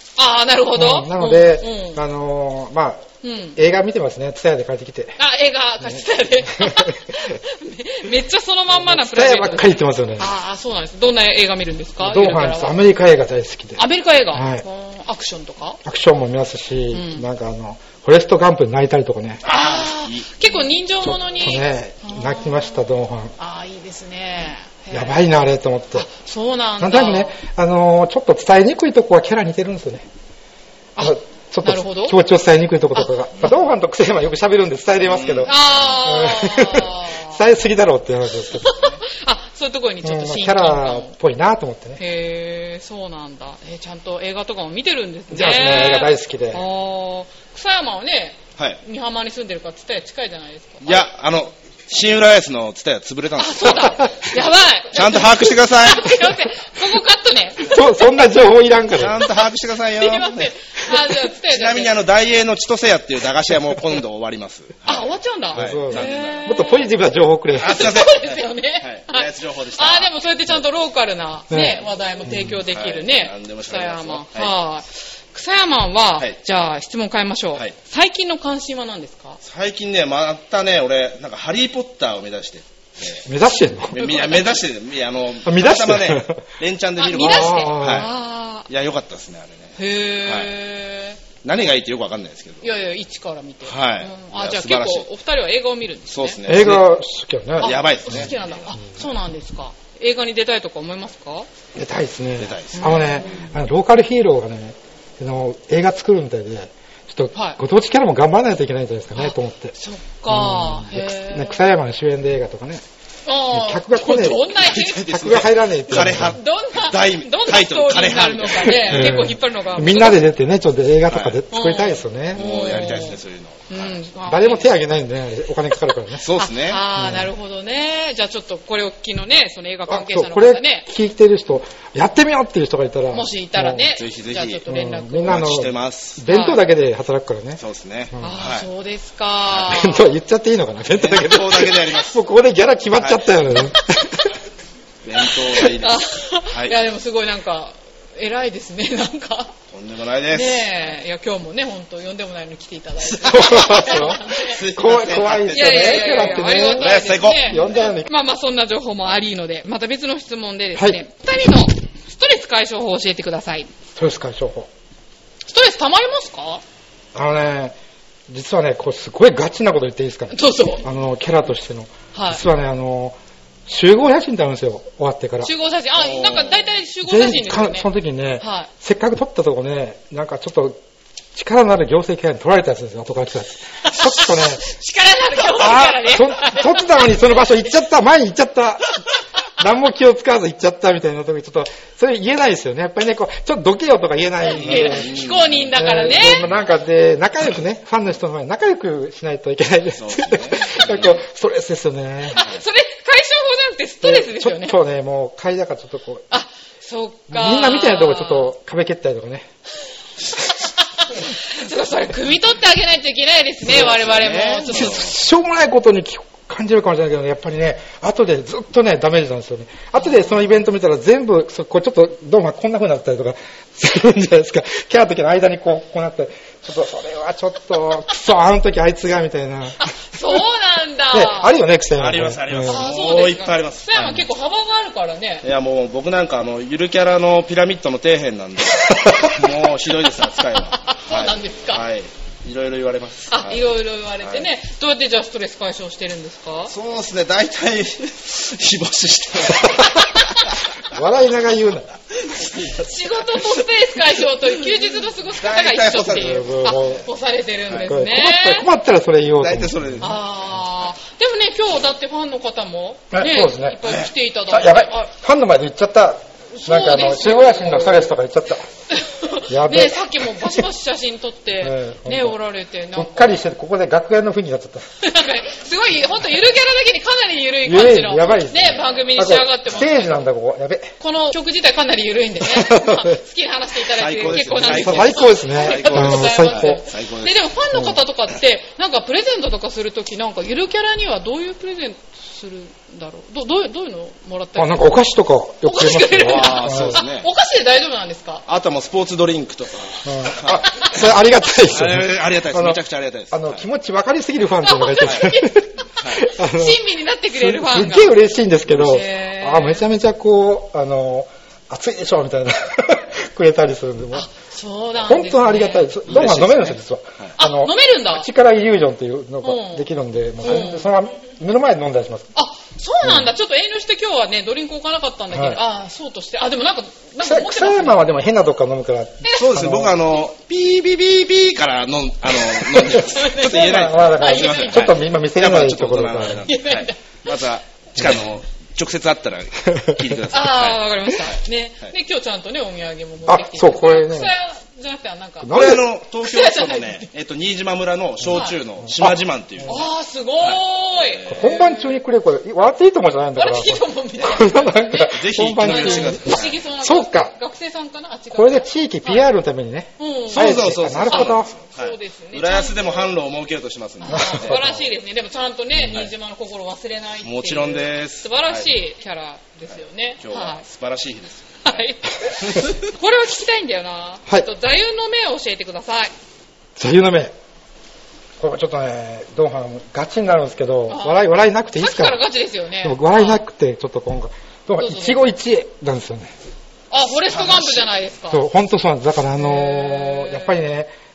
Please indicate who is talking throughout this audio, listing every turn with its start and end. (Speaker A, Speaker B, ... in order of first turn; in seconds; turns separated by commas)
Speaker A: 0.2-2.0, Speaker B: 0.7-5.2, Speaker A: 3.2-3.6, Speaker A: 5.2-12.8, Speaker B: 5.9-7.2, Speaker B: 8.7-10.3, Speaker B: 12.0-14.6, Speaker A: 13.8-15.8, Speaker B: 15.8-19.4, Speaker A: 16.9-17.2, Speaker C: 19.4-20.6, Speaker A: 19.4-25.2, Speaker B: 21.0-23.3, Speaker B: 24.9-26.1, Speaker A: 25.9-27.4, Speaker B: 26.8-30.1, Speaker A: 30.9-32.2, Speaker B: 31.0-38.8, Speaker A: 32.9-33.5, Speaker C: 35.0-36.0, Speaker A: 35.4-37.4, Speaker A: 38.6-41.1, Speaker C: 38.7-39.0, Speaker B: 40.0-42.0, Speaker A: 42.0-51.0, Speaker B: 45.3-46.6, Speaker C: 50.8-54.0, Speaker A: 53.4-58.1, Speaker C: 54.9-56.3, Speaker B: 57.6-59.2, Speaker C: 58.9-60.5, Speaker A: 60.0-62.0, Speaker C: 61.5-66.5, Speaker A: 64.8-66.9, Speaker B: 65.5-67.8, Speaker C: 67.6-70.6, Speaker A: 67.6-79.4, Speaker B: 71.5-72.6, Speaker C: 72.6-74.5, Speaker C: 79.4-83.2, Speaker B: 83.2-84.0, Speaker C: 83.9-88.1, Speaker A: 83.9-84.6, Speaker B: 85.4-86.4, Speaker A: 87.0-88.7, Speaker B: 87.1-88.1, Speaker C: 88.7-90.5, Speaker A: 89.8-91.2, Speaker C: 91.4-92.7, Speaker A: 92.6-96.4, Speaker C: 93.7-95.1, Speaker C: 96.1-96.9, Speaker B: 96.4-97.8, Speaker A: 97.6-101.5, Speaker C: 97.6-98.5, Speaker B: 101.7-109.8, Speaker C: 102.4-103.4, Speaker A: 102.7-103.4, Speaker A: 107.3-107.6, Speaker A: 109.1-111.7, Speaker B: 110.3-112.8, Speaker A: 113.2-120.2, Speaker B: 113.5-114.6, Speaker C: 114.5-119.3, Speaker B: 115.1-116.4, Speaker B: 118.6-122.9, Speaker C: 121.1-121.4, Speaker A: 121.5-124.7, Speaker C: 122.3-124.0, Speaker B: 124.2-126.2, Speaker C: 126.2-126.8, Speaker A: 126.3-130.9, Speaker B: 127.0-127.3, Speaker B: 129.9-133.8, Speaker A: 133.1-135.6, Speaker C: 133.9-134.6, Speaker B: 134.7-137.6, Speaker C: 135.3-136.2, Speaker A: 136.3-136.6, Speaker C: 137.6-138.7, Speaker A: 138.2-140.1, Speaker B: 139.7-144.2, Speaker C: 140.9-142.2, Speaker C: 143.0-143.7, Speaker A: 143.8-144.2, Speaker C: 145.0-146.0, Speaker A: 145.4-149.5, Speaker C: 146.5-146.8, Speaker C: 149.7-150.7, Speaker A: 150.3-154.6, Speaker C: 153.0-157.9, Speaker B: 153.3-158.1, Speaker A: 155.5-163.7, Speaker B: 163.9-164.7, Speaker A: 165.5-166.6, Speaker B: 167.1-167.7, Speaker B: 168.3-175.5, Speaker A: 170.3-170.8, Speaker A: 172.1-172.4, Speaker A: 175.4-177.9, Speaker C: 176.0-176.7, Speaker B: 177.0-180.8, Speaker A: 178.4-178.7, Speaker B: 181.3-184.6, Speaker A: 183.9-187.2, Speaker B: 185.5-188.9, Speaker B: 189.6-195.1, Speaker A: 194.4-196.6, Speaker C: 194.6-195.7, Speaker B: 195.7-202.4, Speaker C: 199.9-201.2, Speaker A: 202.3-204.8, Speaker C: 202.3-202.6, Speaker B: 204.0-206.2, Speaker A: 206.3-208.5, Speaker B: 207.3-209.5, Speaker A: 210.7-215.1, Speaker C: 213.7-215.1, Speaker B: 214.7-229.9, Speaker A: 219.9-220.4, Speaker A: 229.8-231.6, Speaker B: 231.1-232.8, Speaker C: 231.9-234.3, Speaker A: 232.6-235.4, Speaker C: 235.4-243.6, Speaker A: 240.4-241.8, Speaker A: 243.3-246.7, Speaker C: 244.2-244.5, Speaker C: 246.7-250.0, Speaker A: 250.1-250.4, Speaker B: 250.9-251.9, Speaker C: 252.1-253.5, Speaker A: 252.7-258.7, Speaker C: 255.3-257.0, Speaker B: 256.1-257.0, Speaker B: 257.7-260.1, Speaker C: 259.4-260.2, Speaker A: 260.0-265.1, Speaker B: 263.1-263.9, Speaker B: 264.5-268.6, Speaker A: 266.5-268.1, Speaker A: 268.9-273.4, Speaker B: 269.5-270.6, Speaker B: 271.6-272.4, Speaker B: 272.9-274.9, Speaker A: 275.0-280.2, Speaker B: 277.6-280.9, Speaker A: 281.0-294.9, Speaker B: 282.4-283.1, Speaker C: 283.9-287.4, Speaker B: 284.4-286.8, Speaker B: 294.6-297.0, Speaker A: 295.6-298.4, Speaker C: 296.2-297.3, Speaker C: 298.5-301.0, Speaker B: 300.0-314.3, Speaker C: 301.7-303.6, Speaker A: 304.6-305.8, Speaker A: 306.4-308.1, Speaker A: 308.8-309.9, Speaker A: 314.1-315.9, Speaker B: 315.0-322.3, Speaker C: 316.1-317.3, Speaker A: 317.4-318.3, Speaker A: 319.4-319.9, Speaker A: 320.4-320.9, Speaker A: 322.3-328.0, Speaker B: 323.0-323.3, Speaker B: 325.3-325.6, Speaker B: 327.2-329.9, Speaker A: 329.2-329.5, Speaker C: 329.3-341.9, Speaker B: 332.7-336.4, Speaker A: 332.9-335.0, Speaker A: 336.4-337.3, Speaker A: 340.3-347.1, Speaker B: 343.2-344.3, Speaker B: 345.4-345.8, Speaker C: 345.5-349.8, Speaker A: 348.2-348.6, Speaker B: 348.3-349.7, Speaker A: 349.6-352.0, Speaker C: 350.4-351.4, Speaker B: 351.3-357.3, Speaker A: 353.4-359.3, Speaker C: 355.1-356.6, Speaker B: 358.3-361.5, Speaker A: 360.0-363.1, Speaker C: 360.3-364.8, Speaker A: 364.0-370.6, Speaker B: 364.1-364.7, Speaker C: 365.8-366.1, Speaker C: 367.2-368.7, Speaker C: 370.2-371.7, Speaker A: 371.6-376.1, Speaker B: 376.8-377.3, Speaker B: 378.4-382.2, Speaker A: 380.9-381.2, Speaker A: 381.8-383.4, Speaker B: 382.8-386.3, Speaker A: 384.8-385.3, Speaker A: 386.9-388.4, Speaker C: 387.3-387.8, Speaker B: 388.3-390.9, Speaker A: 389.4-390.6